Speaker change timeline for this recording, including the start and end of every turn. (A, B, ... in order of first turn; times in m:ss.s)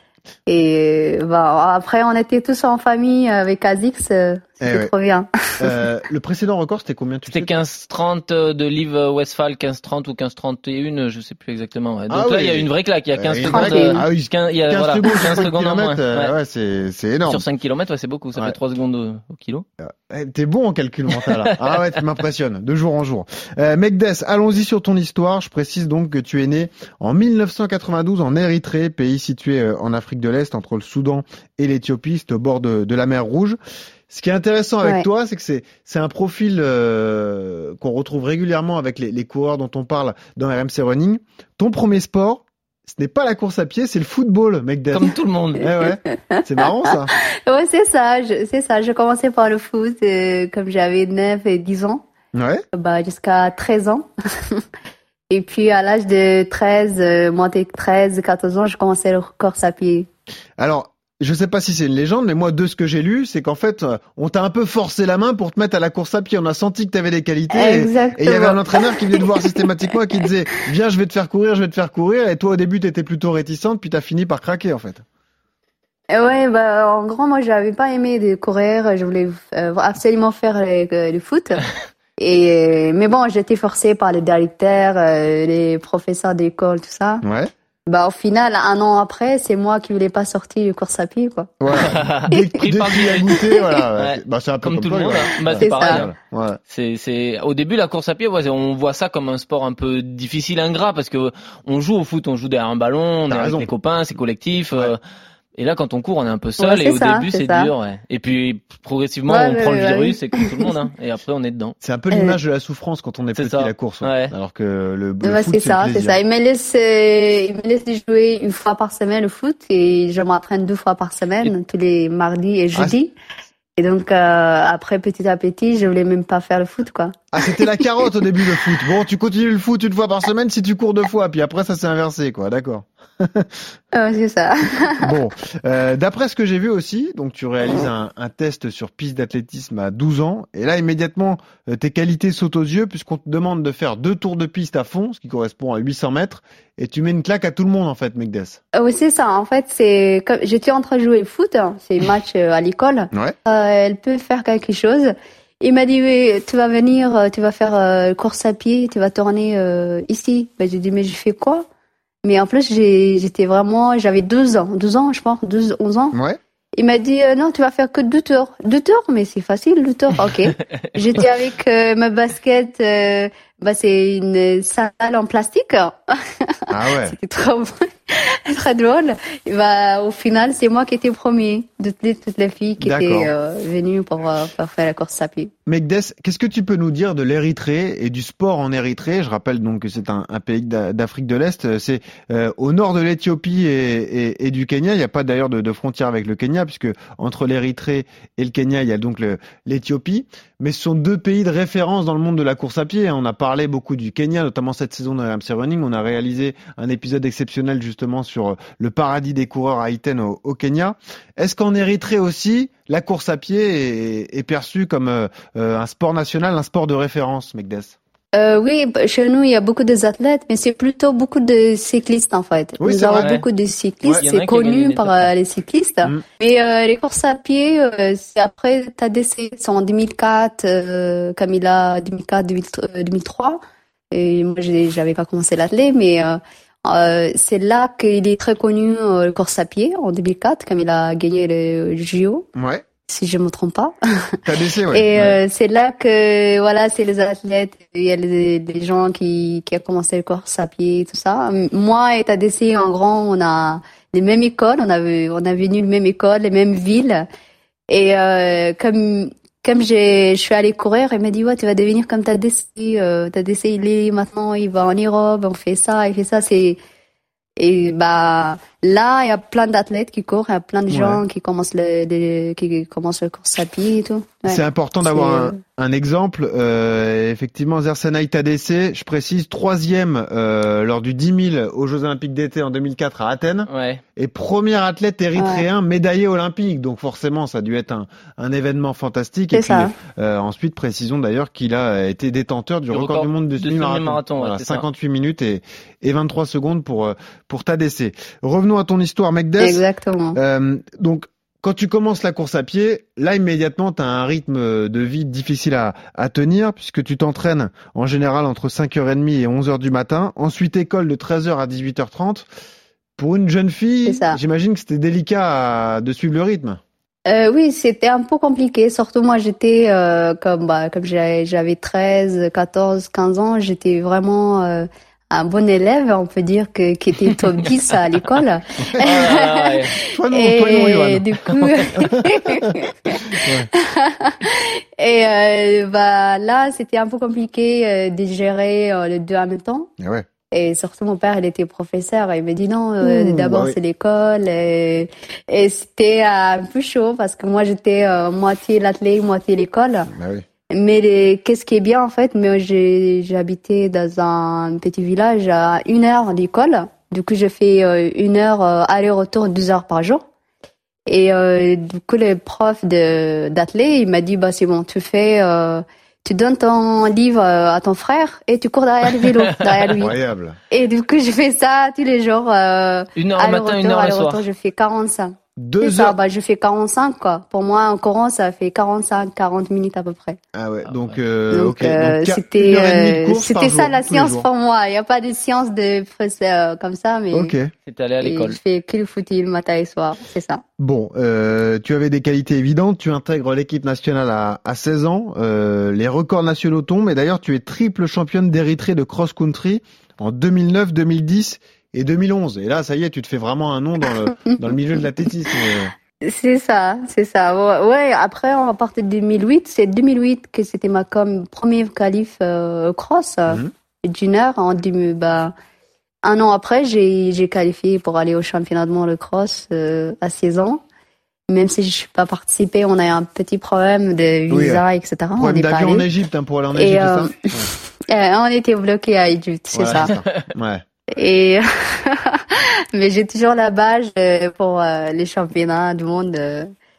0:00.5-0:05.7 A
0:04.6-0:04.9 B
0:05.6-0:07.5 B
0:07.3-0:16.3 C
0:12.1-0:17.4 B
0:13.4-0:14.0 A
0:17.3-0:19.6 C
0:19.8-0:33.6 B
0:34.1-0:47.1 B
0:44.9-0:45.7 C
0:47.4-0:52.0 A
0:52.3-0:52.6 B
0:52.7-0:54.6 A
0:55.3-1:00.1 A
1:00.6-1:15.0 B
1:07.5-1:09.6 A
1:16.1-1:21.6 A
1:22.2-1:27.2 A
1:27.2-1:27.5 B
1:27.9-1:31.5 A
1:31.6-1:36.6 B
1:31.7-1:33.4 C
1:34.0-1:36.1 C
1:35.6-1:36.0 A
1:36.7-1:45.0 C
1:43.3-1:43.7 B
1:45.6-1:51.8 C
1:46.6-1:47.7 A
1:49.3-1:50.6 A
1:51.8-1:56.2 B
1:53.4-1:54.3 C
1:55.2-2:03.1 A
2:03.8-2:07.2 A
2:07.3-2:13.5 B
2:13.9-2:15.1 A
2:15.0-2:28.6 B
2:28.7-2:41.6 A
2:42.2-2:46.2 A
2:46.1-2:46.4 B
2:46.8-2:56.0 A
2:56.7-3:05.5 A
2:56.7-2:57.1 B
3:02.8-3:03.3 B
3:05.6-3:38.0 B
3:38.3-3:53.6 A
3:42.8-3:43.3 B
3:43.2-3:43.4 C
3:44.2-3:45.3 C
3:54.1-4:02.4 A
4:02.5-4:02.8 B
4:03.1-4:04.3 A
4:04.4-4:05.4 B
4:04.9-4:17.2 A
4:17.9-4:26.8 A
4:27.6-4:35.6 A
4:30.9-4:31.2 B
4:34.5-4:59.8 B
4:43.7-4:44.0 C
4:45.4-4:45.6 A
4:49.5-4:49.9 A
4:52.9-4:54.8 C
4:59.6-5:00.4 A
5:00.3-5:12.5 B
5:13.2-5:16.8 B
5:14.0-5:14.4 A
5:17.3-5:29.7 A
5:29.0-5:29.9 C
5:30.1-5:31.2 B
5:30.3-5:39.9 A
5:33.3-5:33.7 B
5:40.0-5:40.2 B
5:40.5-5:50.1 A
5:43.0-5:43.8 B
5:50.1-5:50.4 B
5:50.7-6:00.2 A
6:01.1-6:10.1 A
6:10.0-6:10.6 B
6:10.7-6:20.4 A
6:13.2-6:14.4 C
6:15.6-6:16.1 B
6:20.5-6:24.4 B
6:20.8-6:21.2 C
6:21.5-6:27.5 A
6:27.3-6:27.7 B
6:27.8-6:28.6 C
6:28.2-6:30.6 A
6:30.8-6:45.9 B
6:46.2-6:55.5 A
6:56.2-7:00.8 A
7:01.5-7:06.1 A
7:04.5-7:04.8 B
7:05.4-7:07.7 B
7:06.7-7:07.5 A
7:08.1-7:10.1 A
7:09.7-7:10.8 B
7:11.1-7:16.7 A